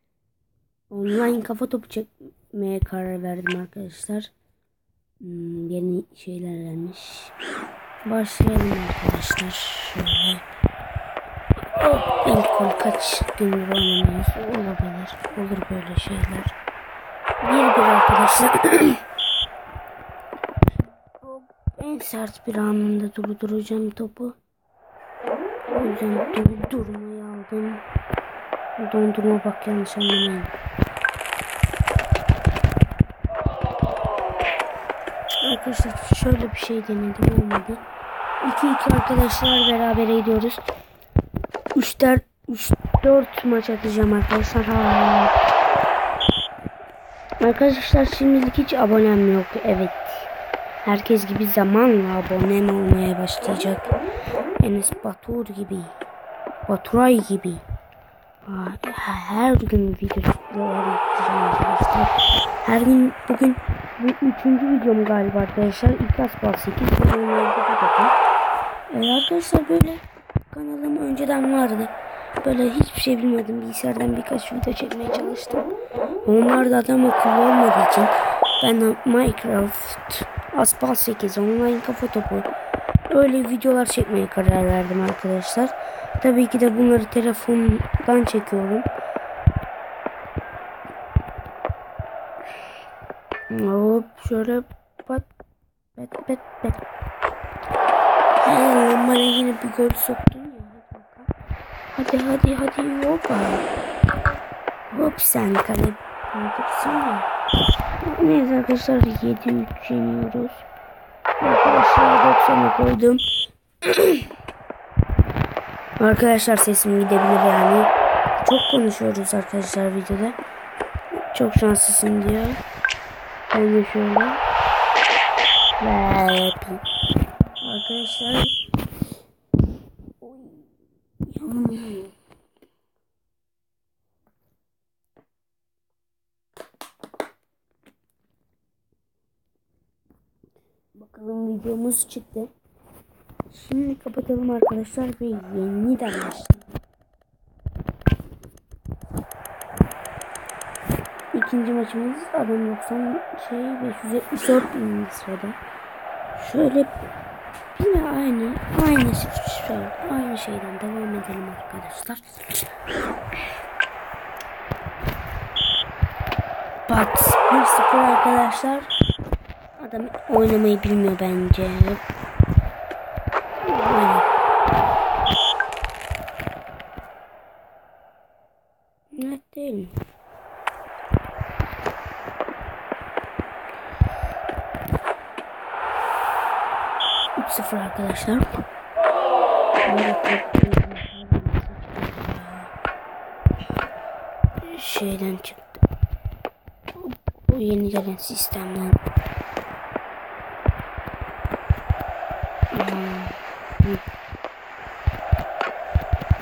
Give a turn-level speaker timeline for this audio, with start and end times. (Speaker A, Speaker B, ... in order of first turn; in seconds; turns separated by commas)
Speaker A: 0.9-4.3, Speaker A: 5.2-7.3, Speaker A: 8.1-10.4, Speaker A: 11.6-16.5, Speaker A: 17.4-19.0, Speaker A: 21.2-24.4, Speaker A: 25.7-27.8, Speaker A: 28.8-30.5, Speaker A: 35.4-37.8, Speaker A: 38.4-40.7, Speaker A: 41.8-45.3, Speaker A: 47.4-50.3, Speaker A: 50.9-54.0, Speaker A: 54.6-56.0, Speaker A: 56.7-57.6, Speaker A: 58.5-68.2, Speaker A: 68.9-75.7, Speaker A: 76.2-82.5, Speaker A: 83.1-88.9, Speaker A: 93.5-95.3, Speaker A: 96.0-96.8, Speaker A: 98.4-101.3, Speaker A: 101.9-103.7, Speaker A: 104.9-107.3, Speaker A: 108.0-110.7, Speaker A: 111.4-113.2, Speaker A: 113.8-114.2, Speaker A: 116.0-117.9, Speaker A: 118.4-120.4, Speaker A: 121.3-122.6, Speaker A: 123.5-124.4, Speaker A: 125.8-126.8, Speaker A: 127.6-128.5, Speaker A: 130.2-130.7, Speaker A: 131.3-132.1, Speaker A: 140.9-142.5, Speaker A: 143.5-146.8, Speaker A: 151.3-155.6, Speaker A: 156.3-156.9, Speaker A: 157.8-162.6, Speaker A: 166.9-168.9, Speaker A: 169.8-172.0, Speaker A: 173.7-174.3, Speaker A: 179.2-179.9, Speaker A: 187.4-188.6, Speaker A: 189.8-192.7, Speaker A: 194.6-195.8, Speaker A: 197.0-199.0, Speaker A: 202.7-204.0